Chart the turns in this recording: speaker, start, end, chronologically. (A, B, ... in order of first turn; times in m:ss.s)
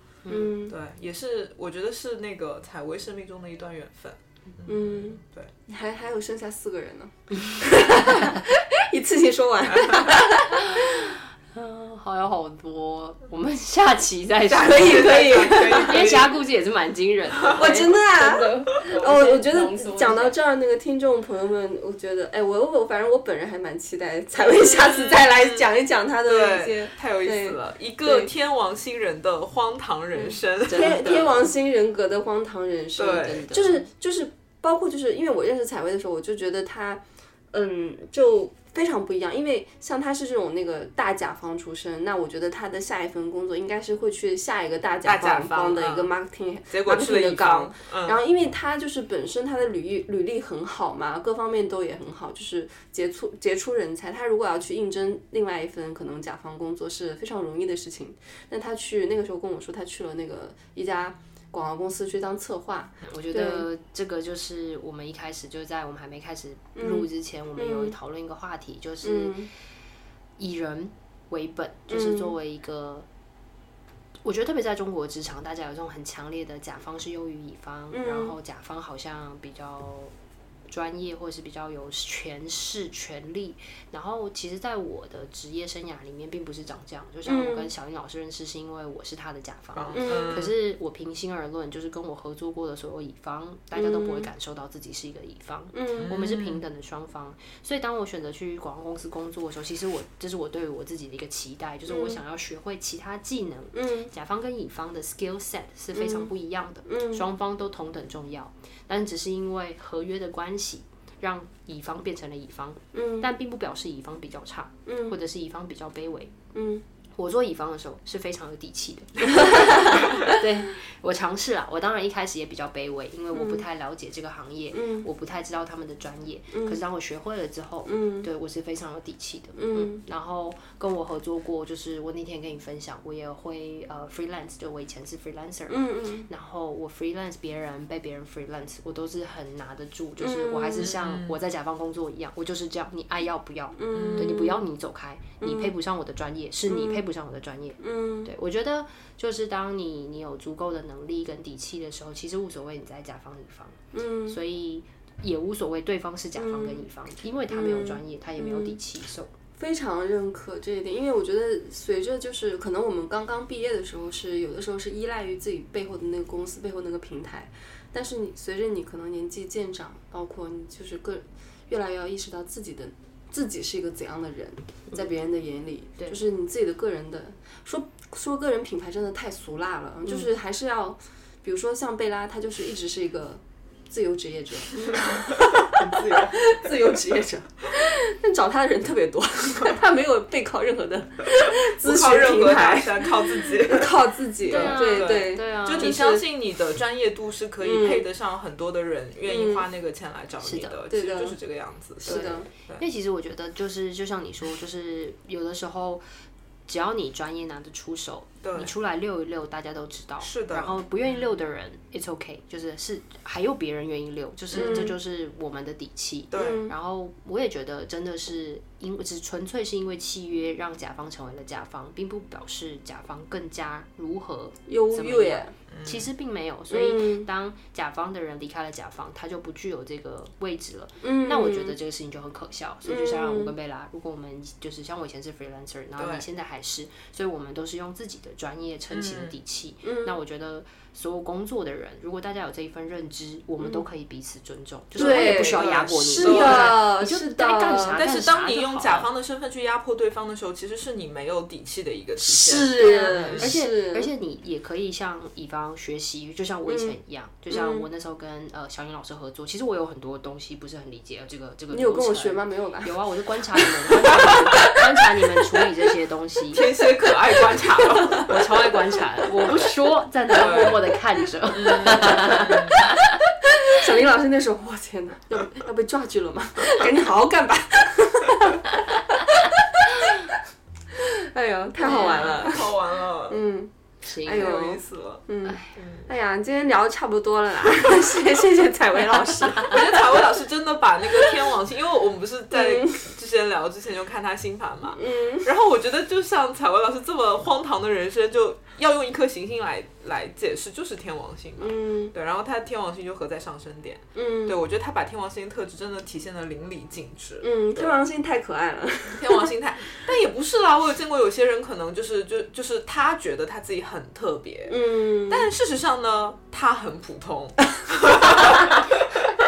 0:00.2-0:00.6 A
0:00.3-0:00.8 B
0:00.7-0:05.5 C
0:04.7-0:11.1 B
0:09.7-0:10.0 C
0:10.3-0:20.4 A
0:14.5-0:16.4 C
0:14.5-0:16.2 B
0:17.5-0:28.3 B
0:24.4-0:25.7 C
0:26.2-0:31.5 C
0:30.1-1:03.6 B
0:30.6-0:31.4 A
0:33.0-0:33.5 C
0:33.2-0:33.9 A
0:45.0-0:46.1 C
0:46.7-0:48.2 C
1:03.0-1:09.5 A
1:06.8-1:07.9 B
1:09.0-1:09.5 B
1:10.4-1:13.1 A
1:11.9-1:12.3 B
1:14.2-1:20.1 A
1:17.9-1:18.4 B
1:20.7-1:56.3 A
1:27.2-1:27.7 B
1:29.7-1:30.5 C
1:29.9-1:30.5 B
1:33.7-1:34.3 B
1:35.7-1:36.1 B
1:36.0-1:36.6 C
1:41.9-1:42.2 B
1:43.7-1:44.1 B
1:45.9-1:46.3 B
1:46.9-1:47.2 B
1:52.9-1:53.3 B
1:54.8-1:55.2 B
1:56.5-1:56.8 B
1:57.2-2:39.3 A
1:59.4-2:00.0 B
2:03.3-2:03.6 B
2:04.7-2:05.1 B
2:06.5-2:06.8 B
2:07.9-2:08.3 B
2:09.6-2:10.0 B
2:15.7-2:16.3 B
2:20.2-2:20.9 B
2:20.8-2:21.4 C
2:23.8-2:24.6 B
2:23.9-2:24.3 C
2:25.4-2:25.7 B
2:26.7-2:27.0 B
2:27.8-2:28.3 B
2:33.9-2:34.4 B
2:36.4-2:36.8 B
2:37.5-2:38.8 B
2:39.6-3:16.2 B
3:05.0-3:06.8 C
3:11.4-3:22.8 C
3:14.4-3:16.0 A
3:17.6-3:18.1 B
3:19.2-3:19.7 B
3:20.4-3:20.8 A
3:20.9-3:21.4 B
3:22.0-3:22.5 B
3:22.0-3:26.0 A
3:26.7-4:09.1 A
3:28.4-3:28.7 C
3:30.2-3:31.2 C
3:34.5-3:34.9 C
3:34.5-3:35.0 B
3:36.3-3:36.6 C
3:36.3-3:36.7 B
3:44.7-3:45.5 B
3:45.7-3:46.1 C
3:46.7-3:47.3 B
3:51.0-3:51.8 B
3:52.8-3:53.5 B
3:56.0-3:56.2 C
3:58.9-3:59.4 C
3:59.8-4:00.2 B
4:03.6-4:03.8 B
4:04.9-4:06.8 C
4:05.0-4:08.0 B
4:07.7-4:13.5 C
4:12.2-4:26.7 A
4:12.4-4:14.1 B
4:16.6-4:17.0 B
4:17.5-4:17.9 B
4:21.7-4:23.0 B
4:23.5-4:24.8 B
4:26.5-4:28.4 C
4:28.2-4:33.2 A
4:30.3-4:30.8 C
4:31.5-4:32.8 C
4:32.0-4:32.4 B
4:33.5-4:40.3 B
4:40.9-4:50.3 B
4:41.8-4:43.4 C
4:41.9-4:42.4 A
4:44.0-4:44.5 A
4:44.3-4:45.2 C
4:45.4-4:45.7 A
4:45.7-4:46.1 C
4:49.6-5:08.0 C
4:51.2-4:51.5 B
4:52.5-4:53.1 B
4:54.9-4:55.5 B
5:01.6-5:02.1 B
5:04.1-5:04.6 B
5:07.4-5:09.5 B
5:09.1-5:19.3 C
5:14.7-5:15.5 B